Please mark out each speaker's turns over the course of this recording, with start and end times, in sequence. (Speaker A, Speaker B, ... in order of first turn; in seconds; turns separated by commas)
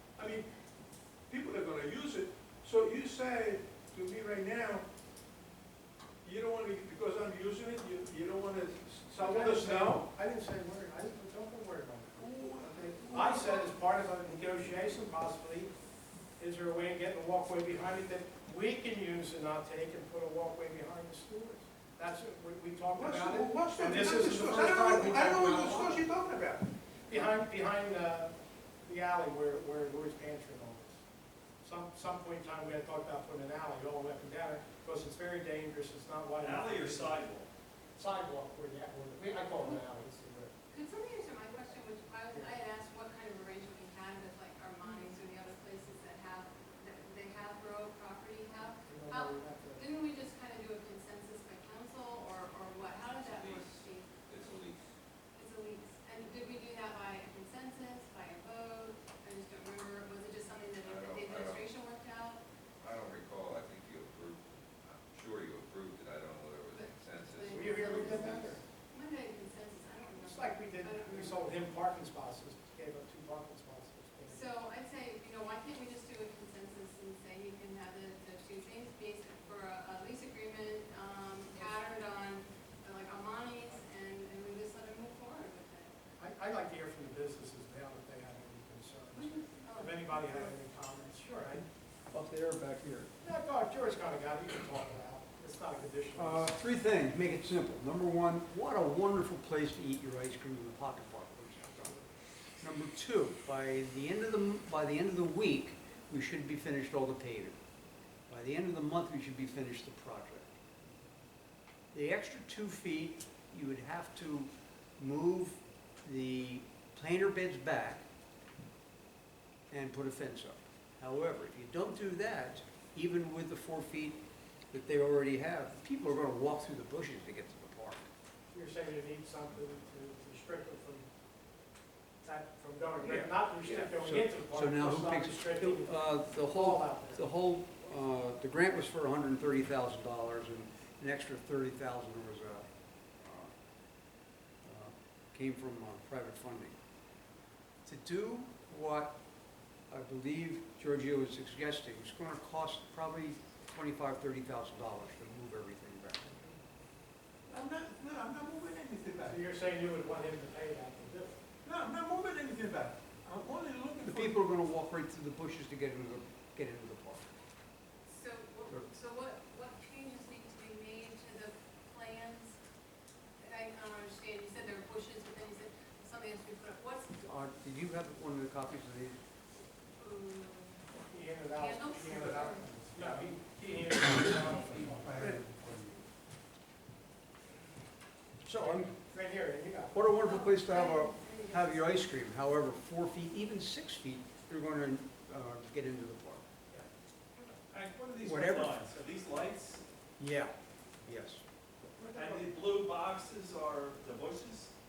Speaker A: 0.2-0.5, Speaker A: 1.3-4.8, Speaker A: 6.2-10.0, Speaker B: 9.1-15.7, Speaker A: 12.2-13.6, Speaker B: 16.4-26.1, Speaker A: 22.9-26.6, Speaker B: 27.1-31.0, Speaker B: 31.6-37.3, Speaker C: 36.4-37.5, Speaker B: 37.9-40.5, Speaker D: 40.7-54.3, Speaker B: 48.9-49.8, Speaker E: 53.1-54.8, Speaker D: 55.4-62.4, Speaker E: 60.8-61.6, Speaker E: 62.8-68.4, Speaker D: 66.7-71.5, Speaker B: 67.5-68.6, Speaker B: 70.1-74.5, Speaker D: 74.2-86.0, Speaker B: 86.2-91.7, Speaker D: 89.2-90.3, Speaker F: 92.1-93.1, Speaker B: 93.2-96.5, Speaker F: 96.2-102.0, Speaker F: 102.6-107.6, Speaker F: 108.3-110.5, Speaker F: 111.9-118.0, Speaker F: 119.7-128.1, Speaker B: 128.5-131.1, Speaker B: 132.2-137.2, Speaker F: 133.0-142.7, Speaker F: 143.2-143.5, Speaker F: 144.6-146.8, Speaker F: 147.8-149.2, Speaker F: 149.9-156.4, Speaker A: 157.5-159.4, Speaker B: 159.2-161.4, Speaker A: 161.6-164.3, Speaker F: 164.1-167.3, Speaker D: 168.1-172.6, Speaker D: 173.4-177.2, Speaker F: 177.2-179.2, Speaker D: 180.0-180.8, Speaker B: 181.1-185.3, Speaker D: 181.5-182.7, Speaker F: 185.0-185.9, Speaker D: 185.6-186.0, Speaker F: 188.4-188.9, Speaker B: 188.5-190.1, Speaker F: 189.9-196.4, Speaker D: 190.2-191.9, Speaker C: 197.7-199.8, Speaker F: 198.2-198.8, Speaker F: 200.2-201.4, Speaker C: 202.1-204.7